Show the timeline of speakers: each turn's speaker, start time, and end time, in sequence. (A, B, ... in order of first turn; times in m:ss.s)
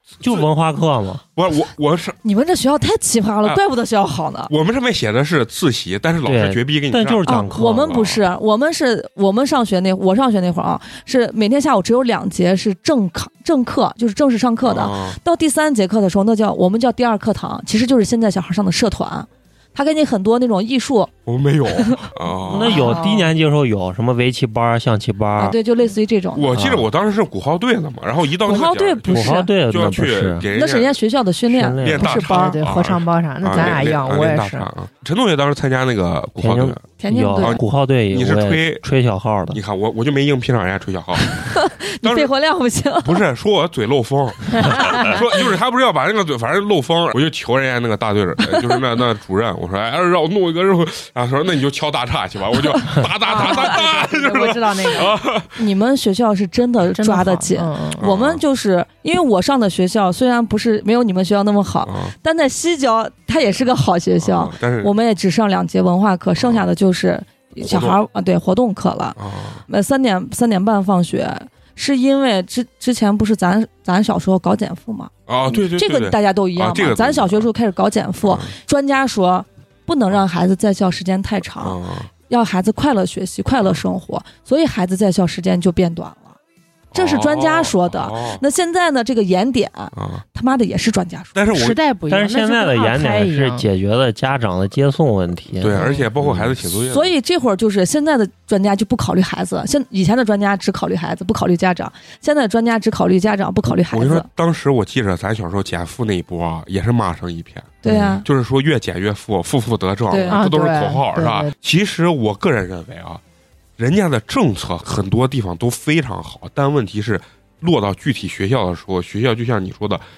0:00.2-0:01.2 A
0:01.4-0:02.2 B
0:02.2-0:04.5 C
0:04.5-0:08.2 B
0:06.2-0:07.8 A
0:07.2-0:21.1 C
0:14.6-0:15.2 B
0:21.2-0:23.0 B
0:21.7-0:22.0 C
0:22.5-0:25.6 A
0:22.6-0:23.3 C
0:25.4-0:26.6 C
0:26.4-0:31.0 B
0:26.5-0:26.9 A
0:28.4-0:29.5 C
0:29.1-0:30.4 A
0:30.4-0:32.6 C
0:31.5-0:32.2 A
0:31.8-0:36.8 B
0:32.2-0:34.7 D
0:36.4-0:39.6 A
0:37.0-0:37.6 C
0:37.4-0:38.8 B
0:39.5-0:41.4 B
0:41.3-0:43.2 C
0:42.0-0:42.3 B
0:43.0-0:55.6 B
0:44.6-0:45.2 C
0:53.2-0:55.1 D
0:53.3-0:53.6 C
0:55.6-1:09.2 C
0:57.0-0:58.0 D
0:58.0-0:58.4 B
1:01.8-1:02.1 B
1:04.2-1:04.9 B
1:06.4-1:06.6 B
1:07.6-1:08.0 B
1:09.2-1:09.6 B
1:09.7-1:21.8 C
1:15.3-1:17.5 B
1:18.2-1:18.5 B
1:21.6-1:22.1 B
1:22.3-1:26.4 C
1:26.9-1:28.4 B
1:26.9-1:31.4 C
1:29.9-1:30.2 B
1:31.3-1:31.8 B
1:31.5-1:33.7 D
1:32.1-1:36.5 A
1:35.6-1:37.1 B
1:35.8-1:36.1 D
1:36.9-1:44.3 C
1:43.9-1:53.2 B
1:47.8-1:48.2 C
1:50.1-1:50.4 C
1:50.3-1:51.5 D
1:53.8-2:00.0 B